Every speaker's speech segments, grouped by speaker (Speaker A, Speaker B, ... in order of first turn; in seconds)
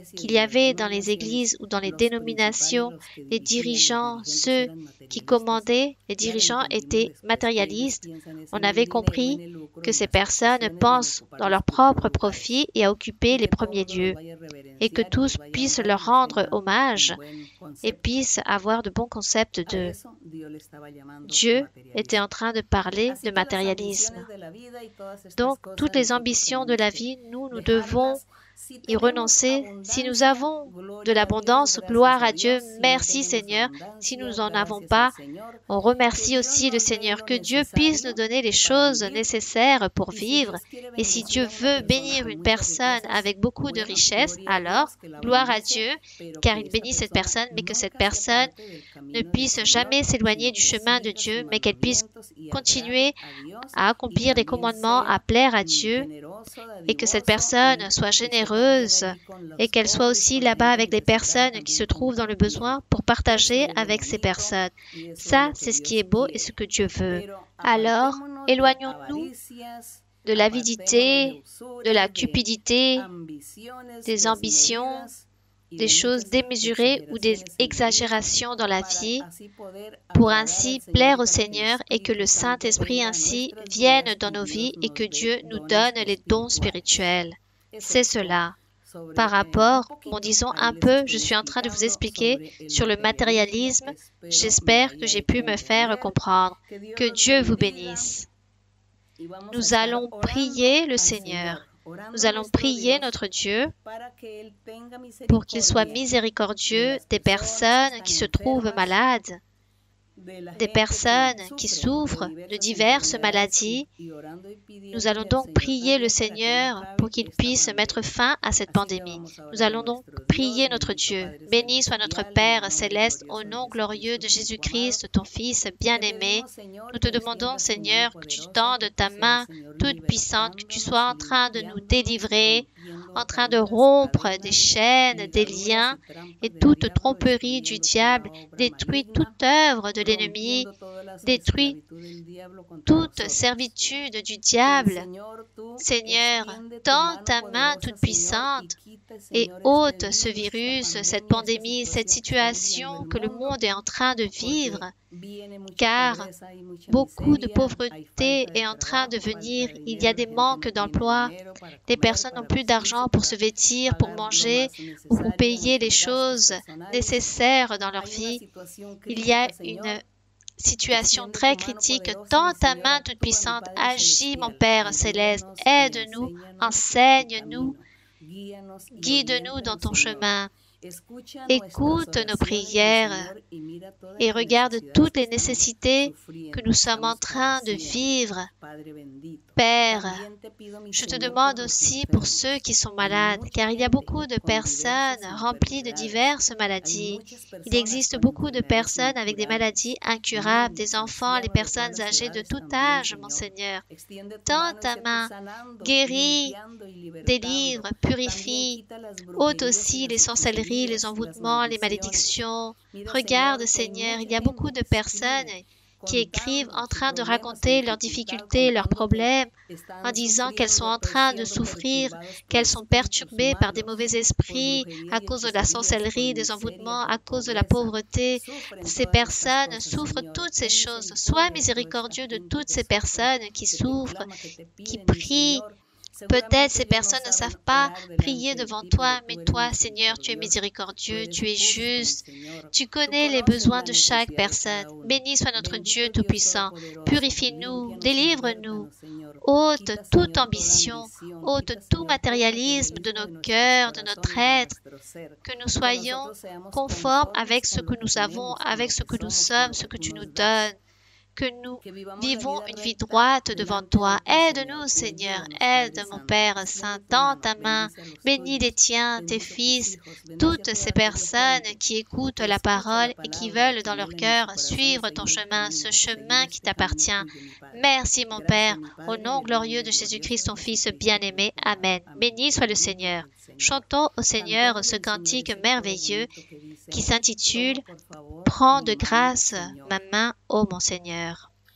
Speaker A: 0.2-14.2, 14.8-17.2, 17.8-20.0, 21.2-24.3, 25.4-28.3, 28.9-35.2, 35.7-48.6, 49.1-53.2, 53.7-56.1, 56.9-69.3, 70.2-73.1, 74.0-75.2, 75.8-79.3, 80.1-88.6, 89.2-98.3, 99.5-103.7, 105.3-109.4, 110.5-113.9, 114.9-140.7, 141.2-141.8, 142.9-145.1, 145.8-148.8, 149.3-154.9, 155.8-156.3, 156.9-161.3, 161.9-168.4, 169.1-170.0, 170.6-177.8, 178.9-180.5, 181.5-183.3, 184.2-188.5, 189.6-190.3, 190.9-203.8, 204.4-206.6, 207.2-208.8, 209.4-219.5, 220.0-234.3, 234.8-235.7, 236.3-248.9, 249.4-254.8, 255.4-260.8, 261.4-286.3, 286.9-287.9, 288.4-291.5